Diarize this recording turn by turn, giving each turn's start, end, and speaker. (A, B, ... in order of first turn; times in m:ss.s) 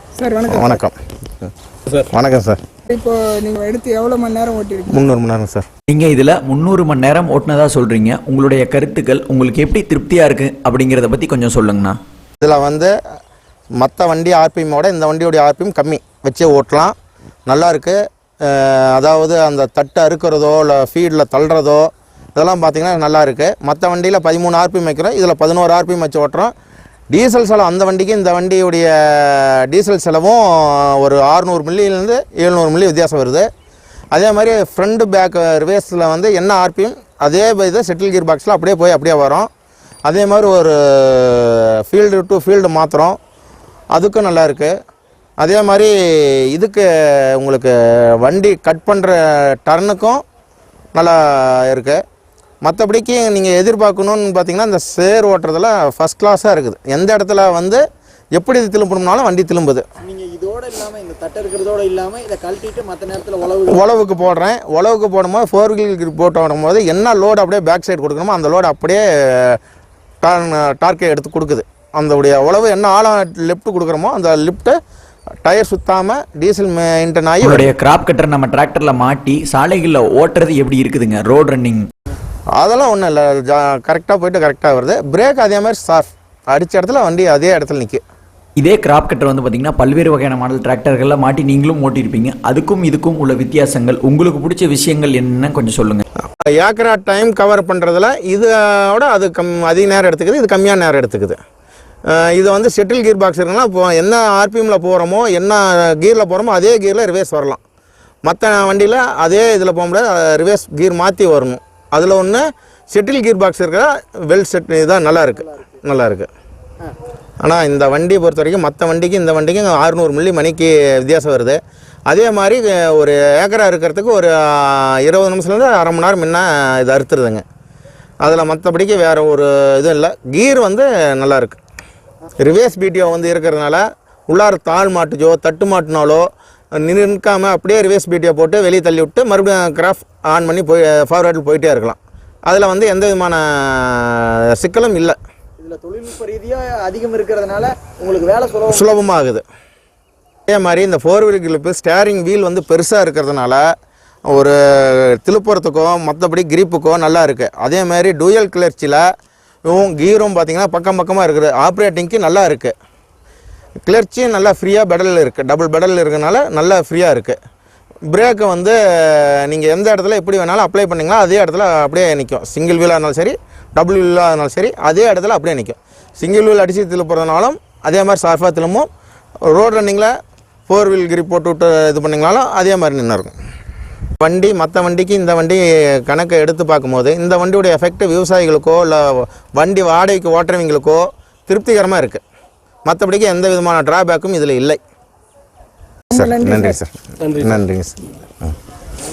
0:00.2-0:00.8 A
0:00.5-0:01.0 B
0:02.0-0:02.6 B
0:02.9-0:05.0 A
0:04.9-0:05.6 B
0:05.9-0:12.0 C
0:12.4-0:12.9 B
0:13.8-0:17.0 B
0:17.5-0:26.5 B
0:27.1-0:33.5 B
0:34.1-0:39.5 B
0:40.0-0:43.2 B
0:43.9-0:44.7 B
0:45.4-0:50.2 B
0:51.0-0:52.0 B
0:52.6-0:57.8 B
0:58.3-0:59.9 B
1:00.0-1:03.8 D
1:03.7-1:09.6 B
1:10.2-1:14.8 B
1:15.4-1:17.7 B
1:17.4-1:21.9 C
1:22.6-1:28.0 B
1:28.6-1:36.0 C
1:36.4-1:41.4 B
1:42.1-1:47.6 B
1:48.3-1:56.3 B
1:55.4-1:55.6 D
1:57.4-2:07.4 B
2:08.2-2:11.6 B
2:12.4-2:25.2 B
2:25.6-2:28.9 D
2:28.7-2:29.4 B
2:30.5-2:33.6 B
2:34.3-2:39.0 B
2:39.6-2:42.8 B
2:43.8-2:47.4 B
2:48.1-2:58.9 B
2:59.5-3:00.1 B
3:00.7-3:03.4 B
3:04.2-3:12.2 B
3:12.9-3:14.8 B
3:16.1-3:16.8 A
3:16.1-3:18.1 B